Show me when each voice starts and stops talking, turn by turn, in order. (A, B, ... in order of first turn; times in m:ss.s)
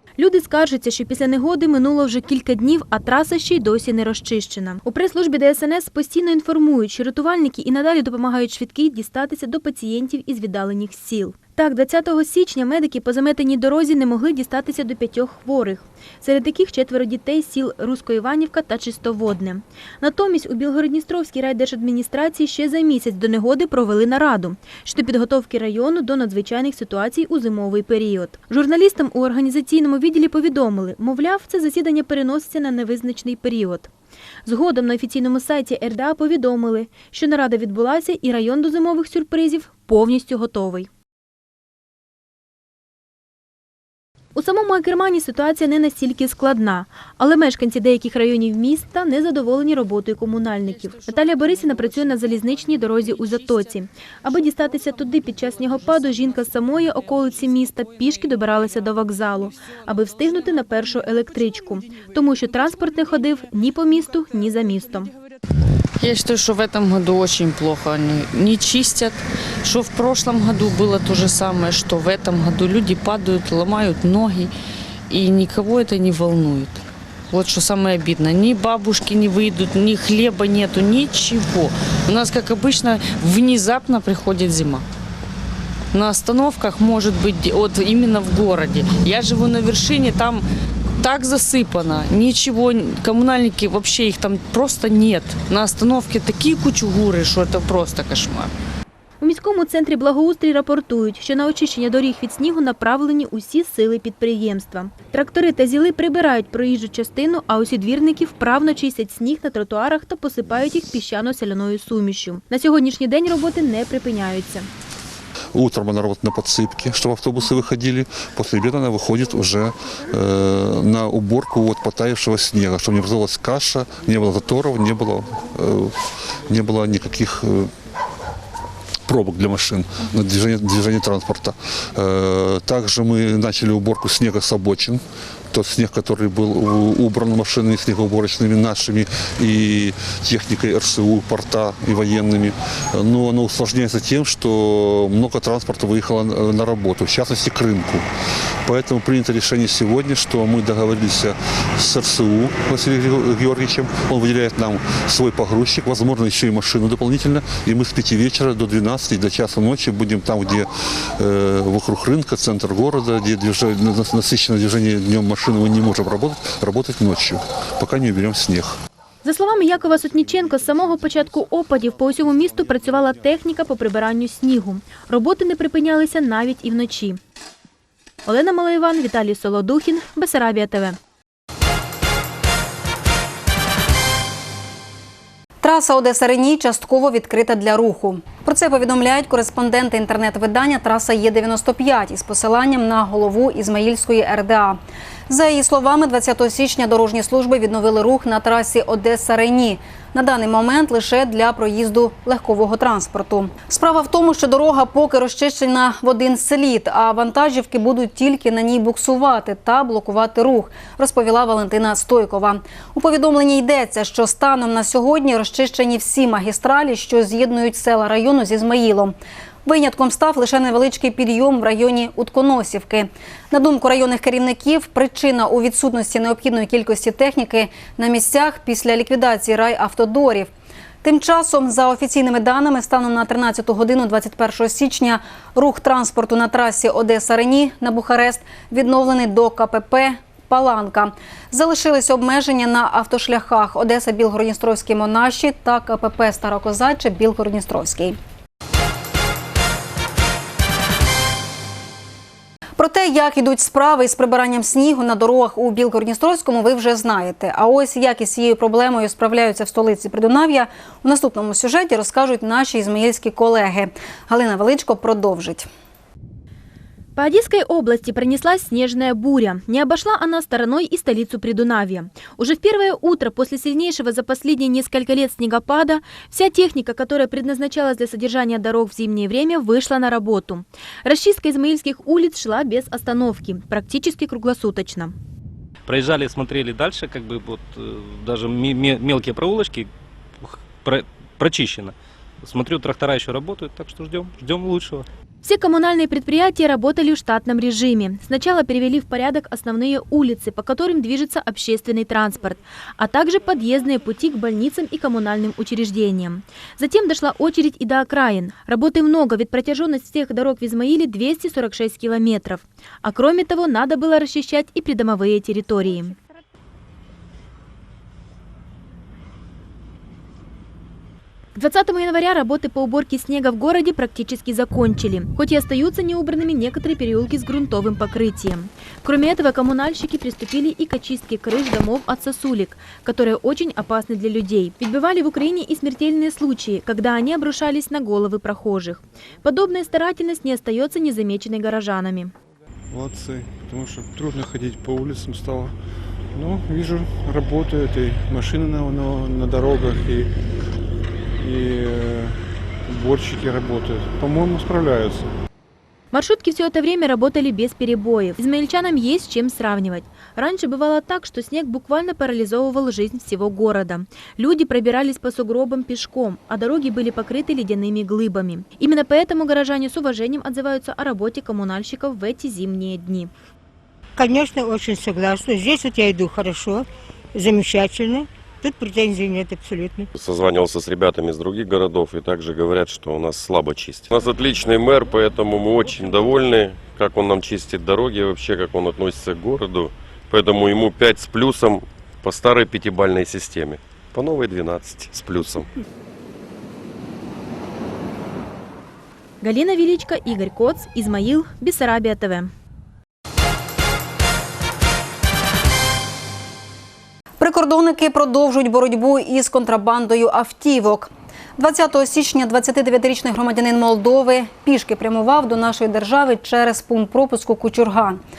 0:00.2-0:33.9 A
0:34.5-0:40.9 A
0:44.4-1:05.1 A
1:06.0-1:14.5 B
1:15.1-1:24.8 B
1:25.9-1:30.4 B
1:31.0-1:38.5 B
1:39.2-1:54.7 A
1:55.5-2:07.7 C
2:09.1-2:15.0 C
2:15.5-2:28.0 C
2:28.6-2:48.8 C
2:49.2-2:57.2 A
2:58.3-3:01.0 A
3:05.6-3:50.5 D
3:51.0-4:08.2 D
4:12.8-4:25.7 D
4:27.2-4:45.1 A
4:45.9-4:49.9 E
4:50.4-4:55.1 E
4:55.4-5:16.2 A
5:21.6-5:42.3 A
5:42.9-5:45.8 F
5:46.3-5:50.4 F
5:51.4-5:55.3 F
5:56.1-6:13.3 A
6:14.2-6:16.8 G
6:17.4-6:20.1 G
6:20.2-6:35.7 H
6:39.4-6:42.5 A
6:47.4-6:58.2 D